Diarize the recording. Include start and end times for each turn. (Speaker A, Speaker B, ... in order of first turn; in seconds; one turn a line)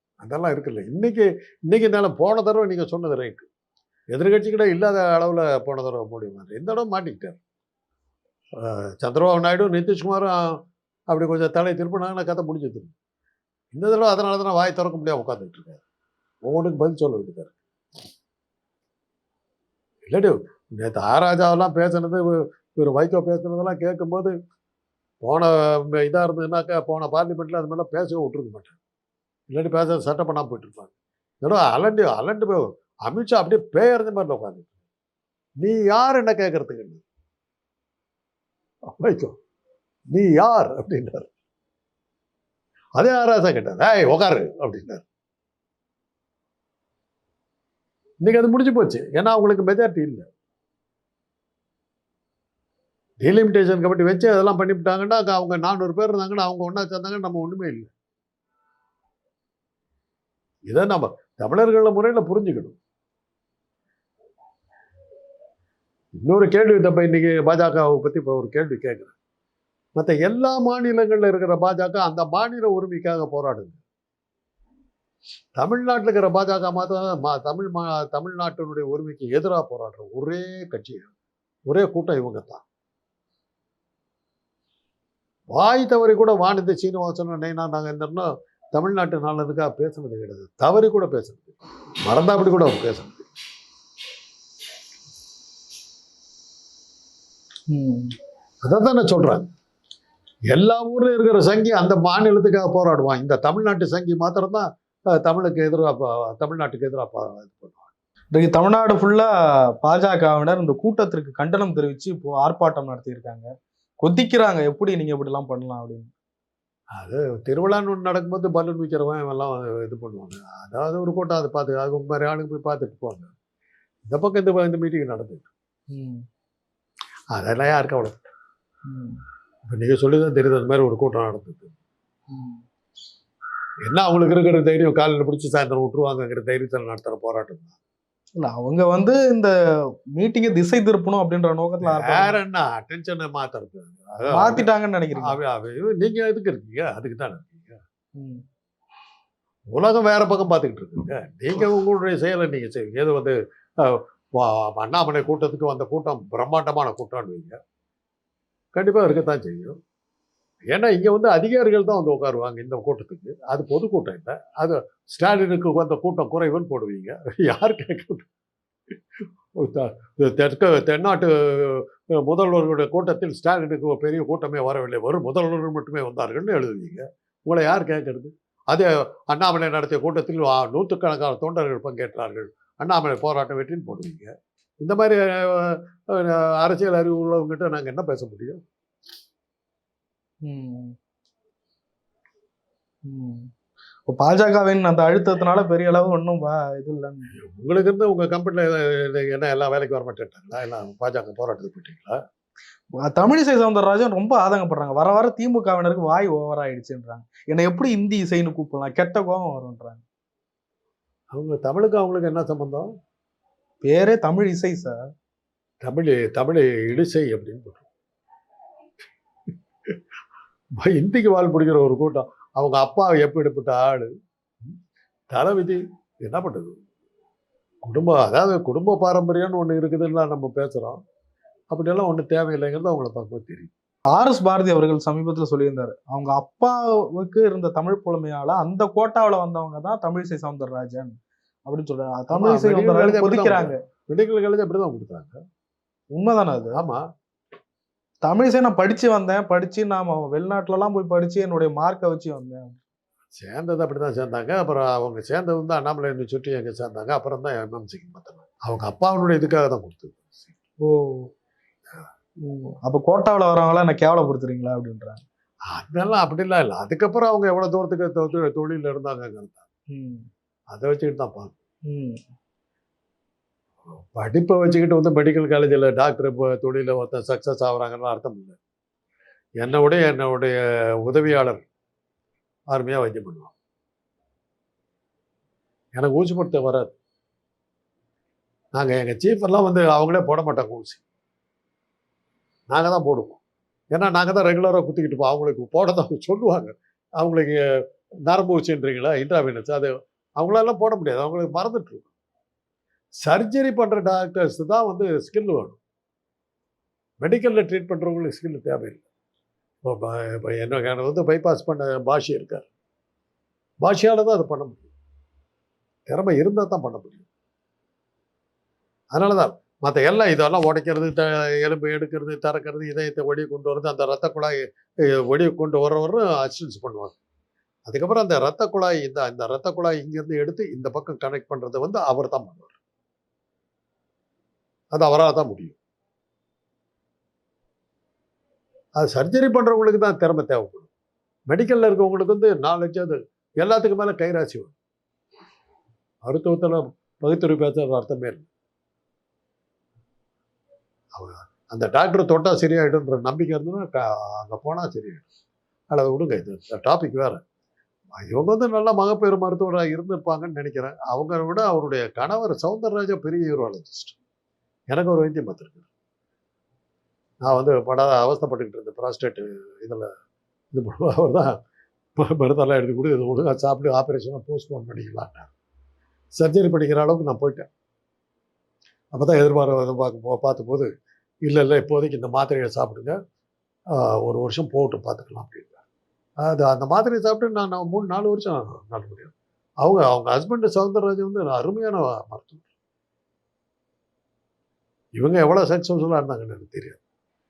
Speaker A: 0.2-3.5
Speaker A: 4.1-7.4
Speaker A: 8.6-10.6
Speaker A: 11.1-12.9
Speaker A: 13.7-15.8
Speaker A: 16.4-17.5
Speaker A: 20.1-24.3
Speaker A: 25.2-28.8
Speaker A: 29.5-34.7
Speaker A: 35.6-37.0
Speaker A: 38.9-39.4
Speaker A: 40.1-41.3
Speaker A: 43.0-45.0
Speaker A: 48.2-50.3
Speaker A: 53.2-57.9
Speaker A: 60.7-62.8
Speaker A: 66.2-69.1
Speaker A: 70.0-73.8
Speaker A: 75.6-81.1
Speaker A: 81.7-82.6
Speaker A: 85.5-93.3
Speaker B: 97.7-98.1
Speaker A: 98.6-99.5
Speaker A: 100.5-104.7
Speaker A: 105.2-107.9
Speaker B: 108.3-109.3
Speaker B: 109.8-113.5
Speaker B: 114.0-116.1
Speaker A: 117.0-123.3
Speaker A: 124.1-125.5
Speaker B: 125.9-126.2
Speaker A: 127.3-128.2
Speaker B: 128.9-129.2
Speaker A: 129.7-131.7
Speaker B: 132.3-132.6
Speaker A: 133.8-137.8
Speaker B: 138.4-139.5
Speaker B: 140.2-142.4
Speaker A: 141.8-147.8
Speaker B: 144.3-145.4
Speaker A: 149.7-157.6
Speaker A: 158.7-159.8
Speaker A: 160.7-168.3
Speaker A: 169.6-188.6
Speaker B: 190.5-190.9
Speaker B: 193.1-193.5
Speaker B: 194.1-197.3
Speaker A: 197.4-202.2
Speaker B: 203.0-210.0
Speaker A: 211.3-212.9
Speaker B: 213.8-215.0
Speaker A: 215.8-217.9
Speaker A: 220.8-224.1
Speaker A: 225.3-226.7
Speaker A: 227.8-231.0
Speaker A: 231.7-233.7
Speaker B: 234.1-243.8
Speaker A: 242.3-245.4
Speaker B: 246.1-246.8
Speaker A: 246.7-247.0
Speaker B: 248.2-252.8
Speaker A: 253.3-260.5
Speaker B: 260.8-261.3
Speaker B: 262.4-265.2
Speaker A: 265.7-269.6
Speaker B: 269.9-270.3
Speaker A: 270.7-271.5
Speaker B: 271.9-272.2
Speaker A: 274.1-278.6
Speaker A: 279.6-281.6
Speaker A: 282.7-283.5
Speaker A: 285.9-286.9
Speaker A: 288.7-291.0
Speaker A: 292.7-293.4
Speaker A: 293.9-297.6
Speaker A: 298.3-302.1
Speaker A: 303.2-305.8
Speaker A: 307.2-309.0
Speaker A: 309.8-312.7
Speaker A: 313.8-314.9
Speaker A: 316.1-317.3
Speaker A: 319.1-324.6
Speaker A: 325.3-327.2
Speaker A: 327.9-332.8
Speaker A: 334.9-335.8
Speaker A: 339.0-340.9
Speaker A: 341.5-344.7
Speaker A: 346.2-348.5
Speaker A: 351.1-355.3
Speaker A: 355.9-357.4
Speaker A: 358.1-364.2
Speaker A: 364.9-365.8
Speaker A: 367.4-370.1
Speaker A: 370.7-371.5
Speaker A: 372.2-375.5
Speaker A: 376.4-377.7
Speaker A: 379.1-380.9
Speaker A: 381.5-383.2
Speaker A: 383.9-385.8
Speaker A: 386.4-392.6
Speaker A: 395.1-397.0